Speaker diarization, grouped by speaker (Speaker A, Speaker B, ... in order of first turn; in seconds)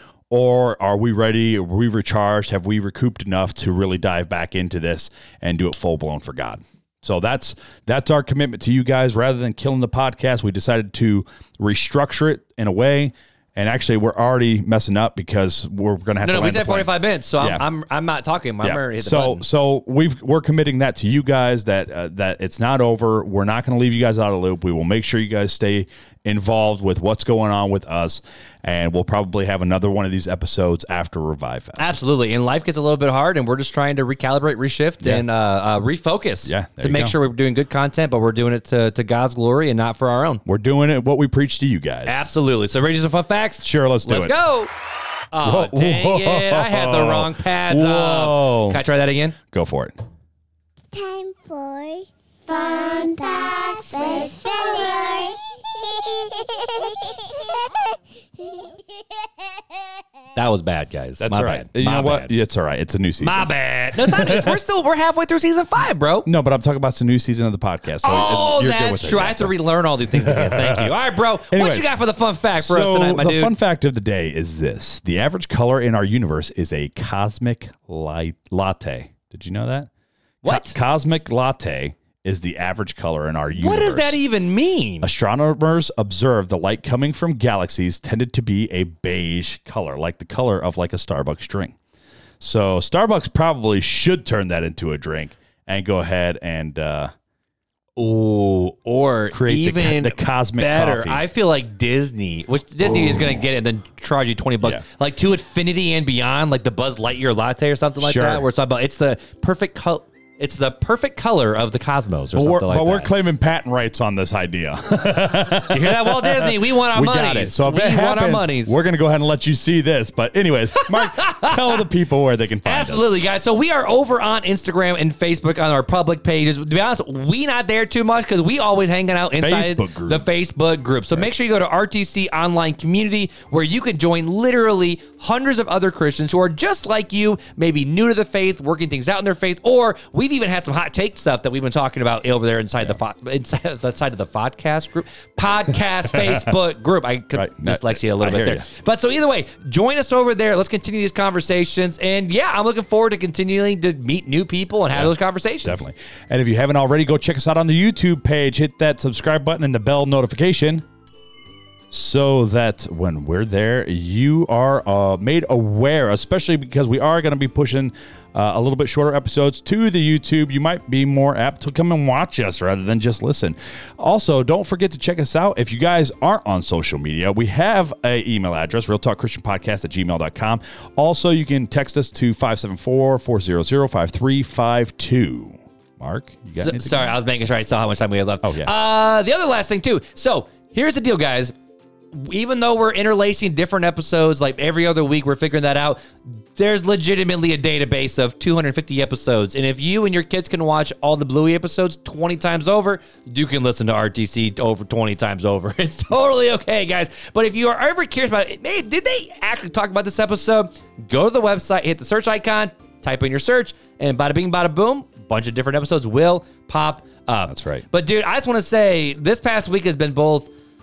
Speaker A: 0.3-17.6, 18.6-31.9, 36.4-37.1, 40.4-42.2, 43.6-44.3, 45.4-48.8, 49.5-50.0, 61.2-64.6, 66.2-69.5, 70.1-70.9, 71.5-72.0, 72.6-79.9, 80.5-84.2, 85.0-91.7, 92.4-97.1, 99.3-101.2, 102.8-103.4, 108.0-108.4, 112.3-123.2, 129.4-130.2, 147.3-148.7, 154.9-160.8, 161.9-187.1, 188.4-188.7, 217.5-217.8
Speaker B: 16.2-19.4, 31.8-40.4, 42.0-44.7, 45.3-49.4, 60.4-62.3, 63.2-66.3, 68.0-73.5, 80.4-80.8, 83.6-85.1, 98.0-113.1, 115.6-118.7, 121.1-121.6, 122.6-155.8, 186.6-191.5, 192.1-220.5
Speaker C: 50.9-59.8